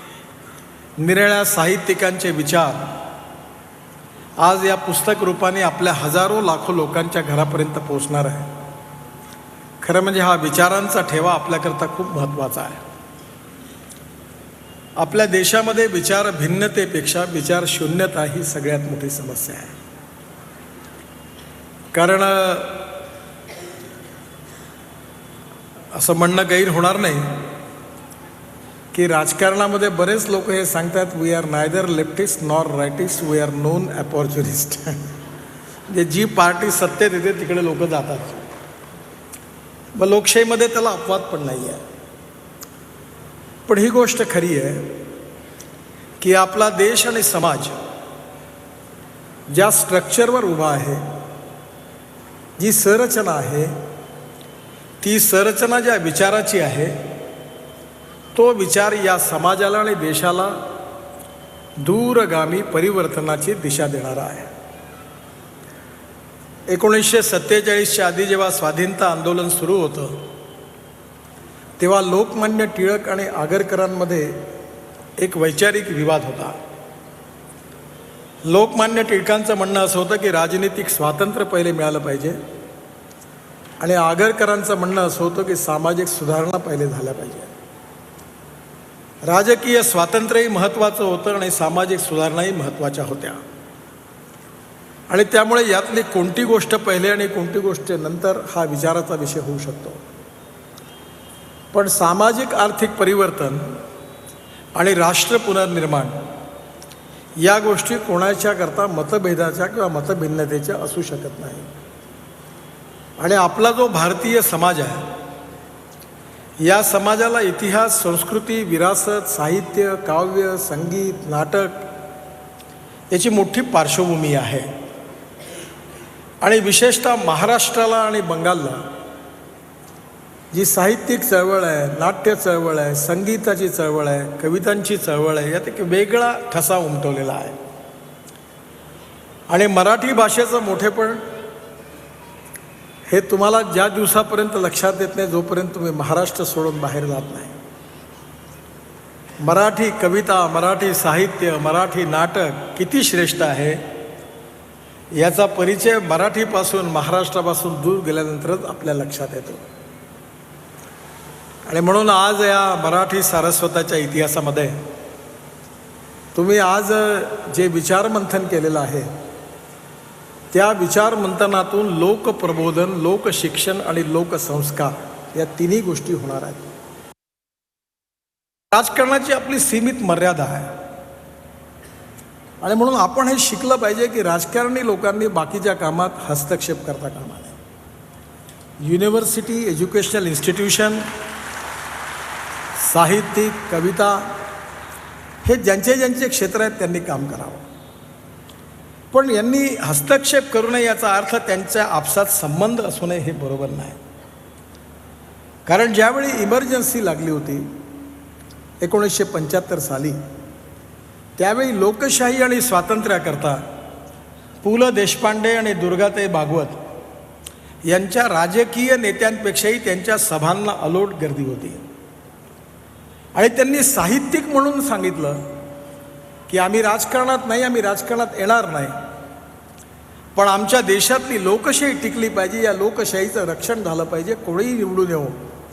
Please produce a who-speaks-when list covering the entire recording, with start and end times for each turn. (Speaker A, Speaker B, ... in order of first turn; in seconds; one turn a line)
Speaker A: 1.0-2.9
Speaker A: 4.4-8.5
Speaker A: 9.8-12.8
Speaker A: 15.0-19.8
Speaker A: 21.9-22.9
Speaker A: 25.9-27.4
Speaker A: 28.9-35.0
Speaker A: 35.9-38.4
Speaker A: 39.9-41.8
Speaker A: 43.7-45.0
Speaker A: 46.2-47.8
Speaker A: 49.5-51.0
Speaker A: 52.6-53.7
Speaker A: 55.0-57.0
Speaker A: 58.3-60.6
Speaker A: 61.8-64.5
Speaker A: 66.7-70.2
Speaker A: 71.8-74.4
Speaker A: 75.2-76.6
Speaker A: 78.5-82.4
Speaker A: 83.8-87.5
Speaker A: 89.3-93.4
Speaker A: 95.1-100.0
Speaker A: 101.7-103.7
Speaker A: 104.7-106.2
Speaker A: 107.4-111.7
Speaker A: 113.2-115.1
Speaker A: 116.6-121.9
Speaker A: 123.1-124.7
Speaker A: 126.4-128.9
Speaker A: 130.5-137.6
Speaker A: 139.5-141.2
Speaker A: 143.1-147.6
Speaker A: 149.4-153.8
Speaker A: 155.2-159.6
Speaker A: 161.7-164.8
Speaker A: 166.3-169.1
Speaker A: 170.5-176.7
Speaker A: 178.7-180.7
Speaker A: 182.6-187.6
Speaker A: 188.8-191.1
Speaker A: 192.8-194.4
Speaker A: 195.4-197.7
Speaker A: 199.1-204.0
Speaker A: 205.7-207.7
Speaker A: 208.8-210.2
Speaker A: 211.4-213.7
Speaker A: 214.6-216.8
Speaker A: 217.9-221.8
Speaker A: 223.3-225.4
Speaker A: 226.5-229.0
Speaker A: 230.3-235.4